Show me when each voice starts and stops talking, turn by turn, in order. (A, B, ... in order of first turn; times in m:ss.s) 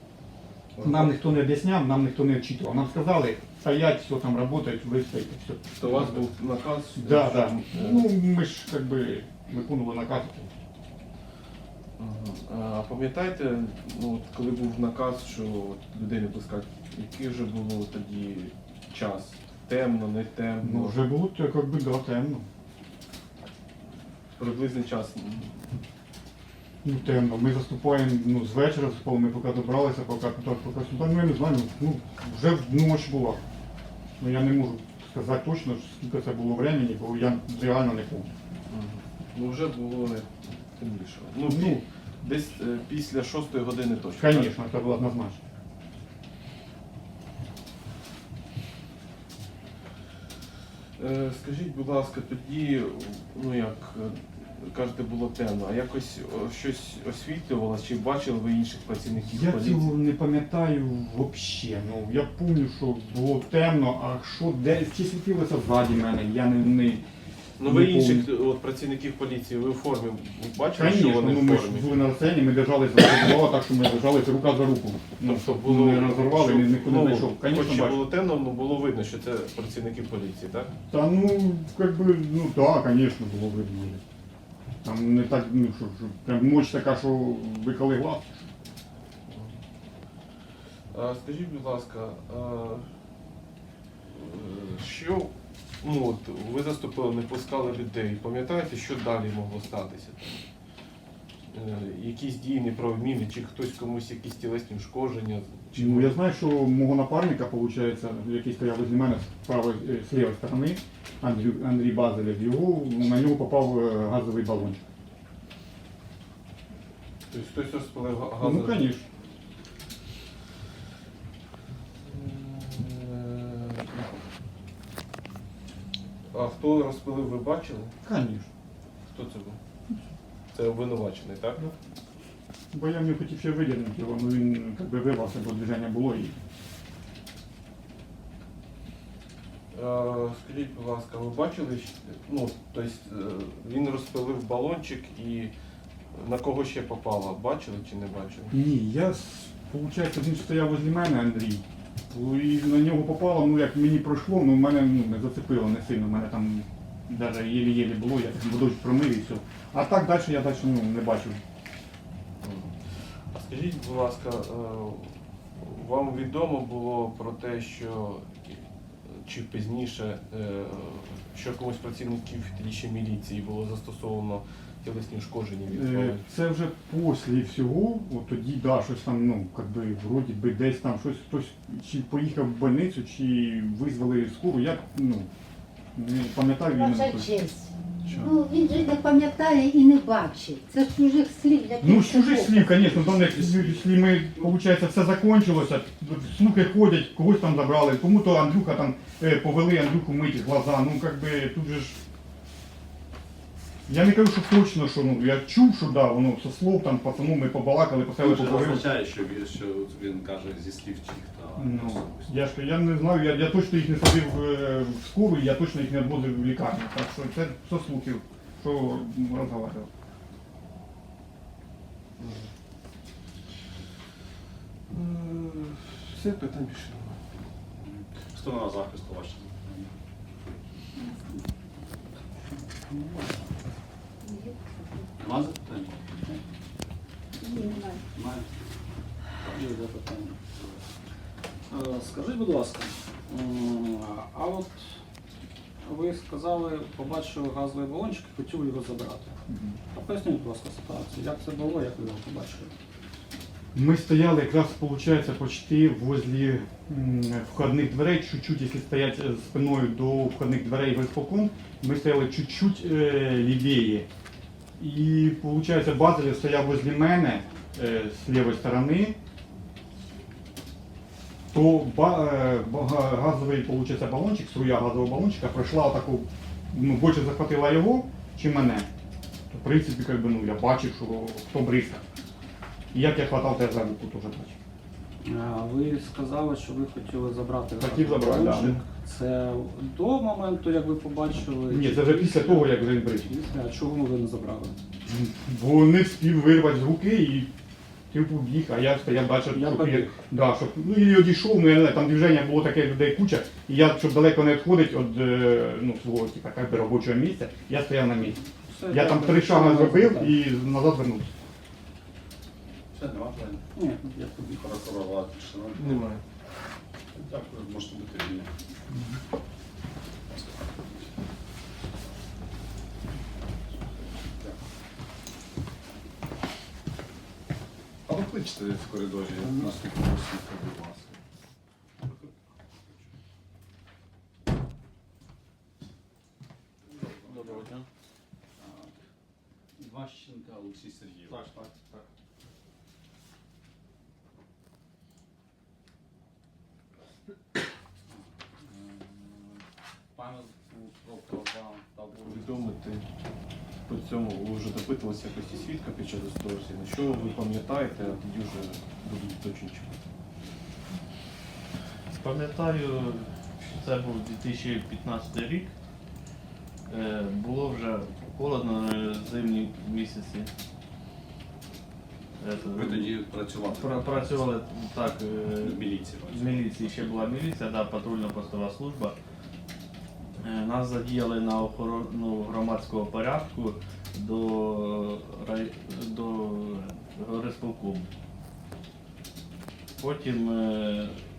0:00.8-0:01.3 A
0:00.8-0:06.3 B
0:05.8-0:08.2 A
0:07.0-0:10.5 B
0:12.0-0:21.0 A
0:20.6-0:22.5 B
0:24.4-0:25.8 A
0:26.8-0:33.4 B
0:34.2-0:38.3 B
0:38.7-0:44.6 A
0:41.4-0:41.8 B
0:44.2-0:45.4 B
0:51.0-1:00.0 A
0:59.3-1:07.0 B
1:07.6-1:12.0 A
1:07.6-1:08.3 B
1:10.7-1:18.0 B
1:15.2-1:20.7 A
1:20.9-1:24.0 B
1:24.8-1:28.5 B
1:29.3-1:29.6 A
1:30.9-1:32.9 A
1:34.1-1:40.5 A
1:41.5-1:46.2 A
1:45.8-1:54.8 B
1:57.3-1:58.9 A
1:58.4-1:59.1 B
2:02.0-2:04.1 A
2:06.3-2:07.9 A
2:08.0-2:08.5 B
2:09.1-2:09.6 A
2:10.5-2:11.6 A
2:12.7-2:16.4 B
2:19.7-2:25.5 A
2:26.1-2:28.6 A
2:28.5-2:41.4 B
2:42.4-2:56.3 A
2:55.7-3:05.3 B
3:06.0-3:07.3 B
3:06.7-3:13.0 C
3:08.1-3:08.4 A
3:11.8-3:22.0 B
3:12.9-3:14.2 D
3:23.9-3:29.0 B
3:28.2-3:32.4 D
3:31.6-3:39.9 B
3:42.2-3:42.5 A
3:44.9-3:47.2 A
3:47.8-3:49.9 D
3:52.9-3:53.2 E
3:55.2-3:56.0 D
3:57.6-3:57.9 C
3:58.2-3:58.5 D
3:59.5-4:00.4 E
4:01.7-4:05.0 E
4:05.8-4:09.4 E
4:09.5-4:09.8 B
4:09.9-4:12.7 E
4:13.8-4:24.1 B
4:24.8-4:29.2 B
4:31.5-4:38.9 B
4:39.5-4:42.0 B
4:42.9-4:44.6 B
4:45.2-4:54.8 E
4:47.8-4:48.8 B
4:51.7-4:53.3 B
4:55.1-4:57.5 B
4:58.1-5:11.3 B
4:59.5-5:00.2 E
5:08.6-5:10.4 E
5:12.9-5:13.6 D
5:13.8-5:14.9 E
5:14.5-5:16.1 D
5:15.8-5:16.2 A
5:17.2-5:18.5 D
5:20.3-5:20.7 D
5:28.1-5:31.2 D
5:37.0-5:37.6 D
5:37.0-5:37.9 F
5:38.6-5:38.9 D
5:39.8-5:41.5 D
5:41.3-5:42.1 F
5:48.1-5:49.6 D
5:50.2-5:52.6 D
5:52.2-5:53.1 A
5:53.9-5:59.9 A
6:02.1-6:05.7 F
6:06.9-6:10.5 F
6:12.4-6:19.2 F
6:12.7-6:14.5 D
6:15.6-6:17.4 D
6:20.4-6:28.1 F
6:30.0-6:31.2 F